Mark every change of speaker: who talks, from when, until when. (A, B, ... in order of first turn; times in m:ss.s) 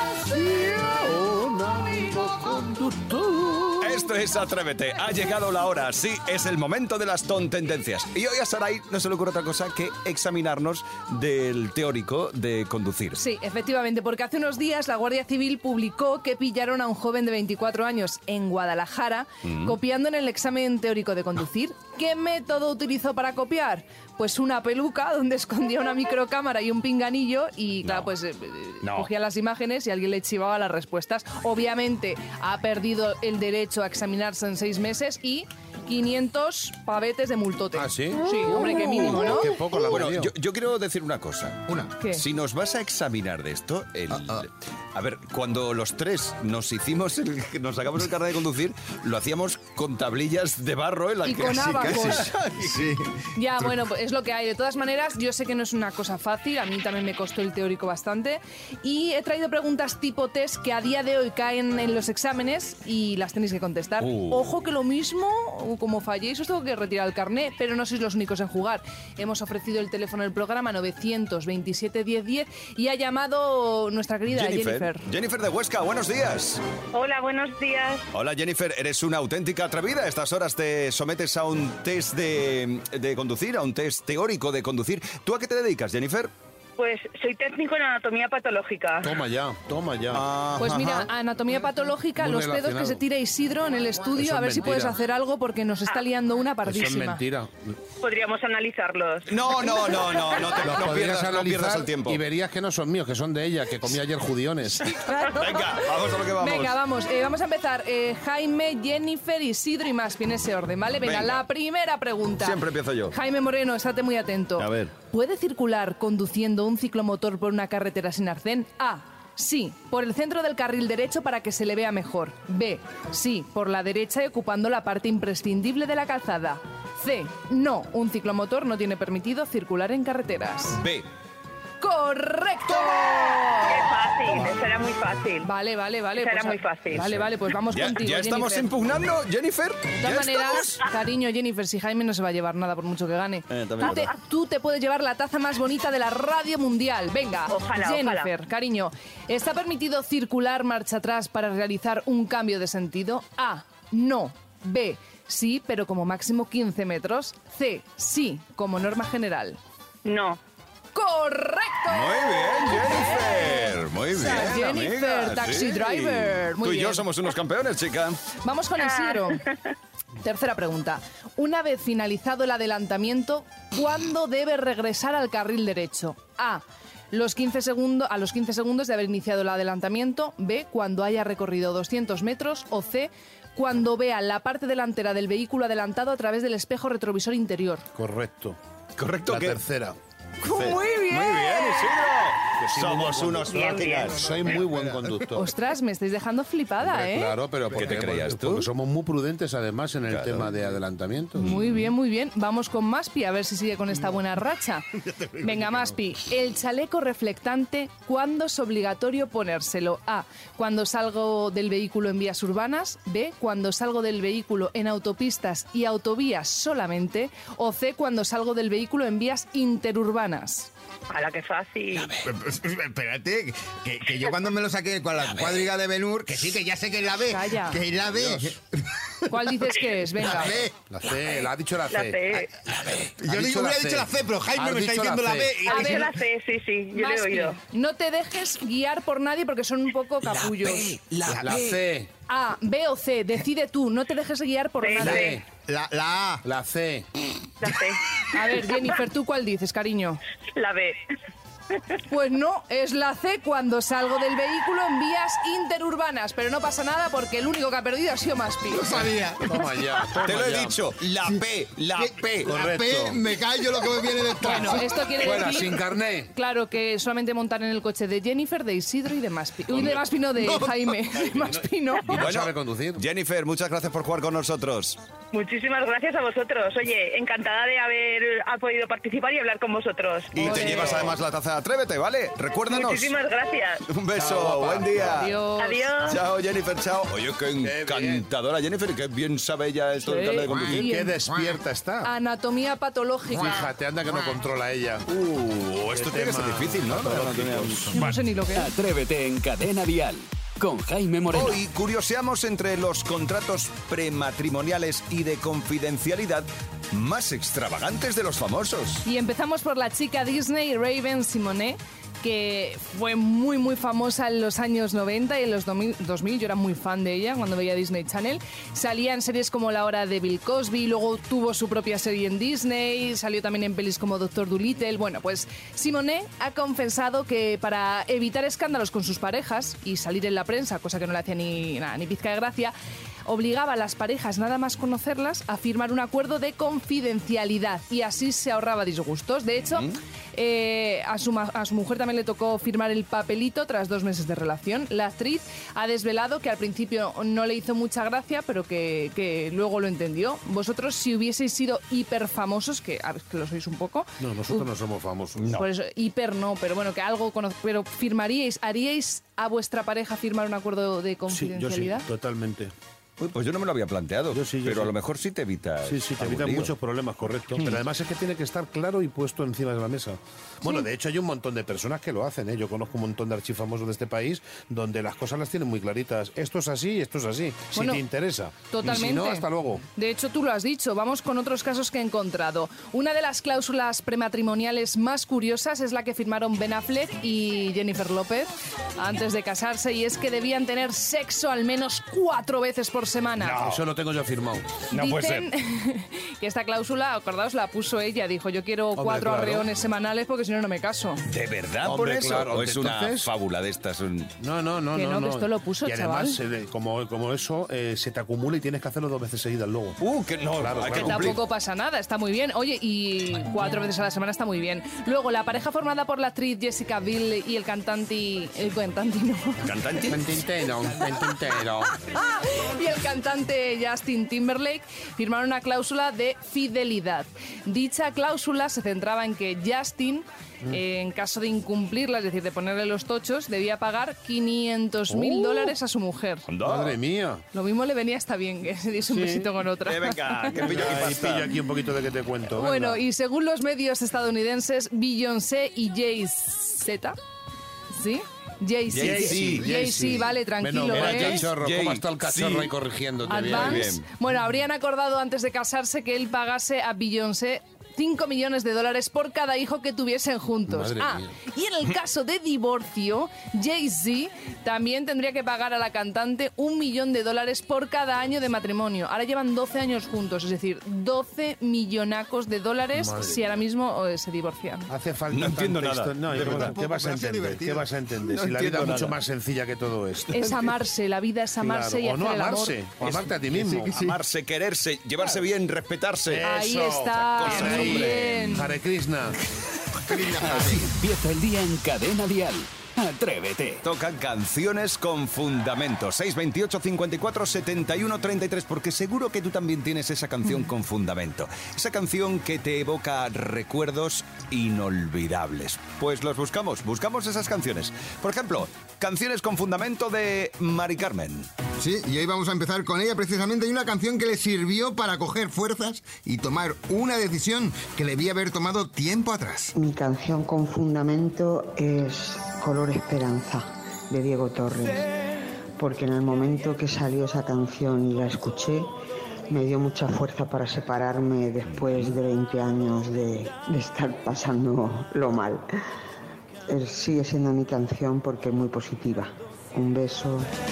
0:00.2-0:04.0 A
0:03.8-0:13.2 B
0:13.2-0:39.6 C
0:19.4-0:19.8 B
0:27.8-0:28.1 B
0:28.8-0:29.1 B
0:37.8-0:40.3 A
0:39.7-0:52.9 B
0:41.7-0:42.0 D
0:44.1-0:44.4 D
0:51.2-0:52.3 C
0:51.8-0:53.7 D
0:53.4-1:15.1 C
1:04.0-1:04.5 B
1:14.3-1:16.6 B
1:16.9-1:18.0 E
1:18.1-1:26.3 B
1:26.8-1:29.1 E
1:29.0-1:30.3 A
1:30.1-1:31.1 B
1:30.6-1:37.2 C
1:32.2-1:33.0 A
1:34.2-1:35.0 A
1:36.6-1:37.8 A
1:38.0-1:40.4 E
1:39.3-1:42.2 B
1:40.6-1:44.9 A
1:44.9-1:52.6 C
1:45.2-1:46.8 B
1:51.0-1:51.4 B
1:52.4-1:53.2 B
1:53.1-2:10.8 C
1:54.6-1:54.9 B
2:10.8-2:11.1 B
2:11.8-2:14.1 C
2:13.6-2:15.5 E
2:15.4-2:18.7 C
2:16.2-2:17.1 E
2:17.7-2:20.8 B
2:20.0-2:39.6 C
2:23.5-2:24.1 B
2:27.5-2:28.3 E
2:40.0-2:40.4 E
2:40.9-2:47.0 C
2:41.9-2:48.2 B
2:48.4-2:49.5 C
2:48.8-2:49.6 E
2:50.2-3:07.8 C
3:08.0-3:08.6 A
3:09.0-3:09.6 B
3:09.3-3:10.0 A
3:10.4-3:11.9 C
3:10.4-3:14.4 B
3:12.6-3:15.5 A
3:13.6-3:15.1 D
3:15.3-3:17.4 C
3:16.8-3:21.5 A
3:17.7-3:18.7 B
3:20.1-3:20.5 B
3:21.4-3:21.9 B
3:21.4-3:24.9 C
3:25.0-3:26.0 D
3:25.4-3:40.7 C
3:41.1-3:42.2 E
3:42.0-3:50.7 D
3:47.3-3:47.8 C
3:48.1-3:48.5 A
3:49.3-3:50.6 C
3:50.9-3:55.6 A
3:51.9-3:52.5 E
3:53.2-3:56.1 D
3:55.6-3:57.6 E
3:55.7-3:56.1 C
3:56.9-4:00.9 C
4:00.3-4:01.6 B
4:00.9-4:01.6 D
4:01.3-4:02.1 A
4:02.3-4:05.4 C
4:04.8-4:05.4 E
4:05.0-4:05.4 A
4:05.7-4:06.4 D
4:06.4-4:07.1 A
4:07.6-4:08.0 E
4:08.3-4:10.2 C
4:10.6-4:11.1 E
4:12.1-4:19.1 C
4:18.7-4:20.2 D
4:19.4-4:20.8 A
4:20.2-4:22.6 B
4:22.0-4:25.5 D
4:22.4-4:23.2 A
4:24.4-4:32.1 C
4:24.6-4:26.3 A
4:29.8-4:31.0 D
4:31.2-4:33.0 A
4:32.1-4:35.0 B
4:35.3-4:41.0 E
4:40.3-4:43.1 B
4:40.4-4:41.1 C
4:42.7-4:43.8 E
4:43.9-4:45.4 B
4:44.2-4:45.3 A
4:45.0-4:45.8 C
4:45.6-4:46.2 E
4:46.0-4:50.8 B
4:47.6-4:48.2 A
4:50.0-4:51.2 C
4:50.5-4:52.1 A
4:51.3-4:51.6 D
4:52.0-4:53.6 C
4:53.3-4:55.1 A
4:55.1-4:58.0 B
4:55.9-4:58.0 A
4:57.9-4:58.7 C
4:58.6-5:01.6 F
5:01.3-5:09.0 B
5:09.0-5:32.7 C
5:33.3-5:54.7 C
5:54.2-5:55.6 A
5:55.4-5:55.7 B
5:55.5-6:02.0 C
6:01.3-6:02.7 A
6:03.2-6:06.7 B
6:04.3-6:05.0 A
6:05.8-6:19.8 A
6:07.6-6:07.8 B
6:17.8-6:18.0 C
6:18.7-6:33.6 C
6:33.4-6:33.9 B
6:33.6-6:34.8 A
6:34.9-6:41.2 C
6:34.9-6:35.5 B
6:39.0-6:39.7 A
6:41.3-6:44.3 B
6:41.8-6:43.3 A
6:44.4-6:50.0 A
6:45.0-6:46.4 C
6:50.0-6:51.4 B
6:50.6-6:51.4 A
6:50.9-6:59.7 C
6:59.6-7:00.3 B
7:00.1-7:01.9 A
7:02.0-7:16.4 C
7:15.1-7:15.8 A
7:16.5-7:17.0 B
7:16.6-7:17.4 A
7:17.5-7:20.6 C
7:19.1-7:19.5 A
7:19.8-7:21.6 B
7:20.6-7:23.0 A
7:22.6-7:27.2 C
7:27.9-7:31.5 C
7:28.9-7:29.7 B
7:28.9-7:34.0 A
7:30.9-7:32.8 B
7:33.3-7:34.1 B
7:33.3-7:54.9 C
7:40.7-7:41.3 A
7:52.9-7:53.6 A
7:54.9-8:00.7 A
7:55.3-7:56.8 B
7:56.3-7:57.9 D
7:58.3-7:59.2 B
8:00.3-8:02.8 C
8:01.6-8:03.9 A
8:03.0-8:06.4 B
8:03.9-8:04.2 D
8:06.3-8:09.4 A
8:06.4-8:08.8 C
8:07.1-8:08.7 B
8:10.0-8:10.9 D
8:10.4-8:13.8 F
8:13.8-8:31.5 B
8:31.8-8:39.7 D
8:39.8-8:45.1 G
8:45.8-8:49.0 G
8:49.5-8:55.6 G
8:51.7-8:52.2 B
8:56.7-9:00.5 G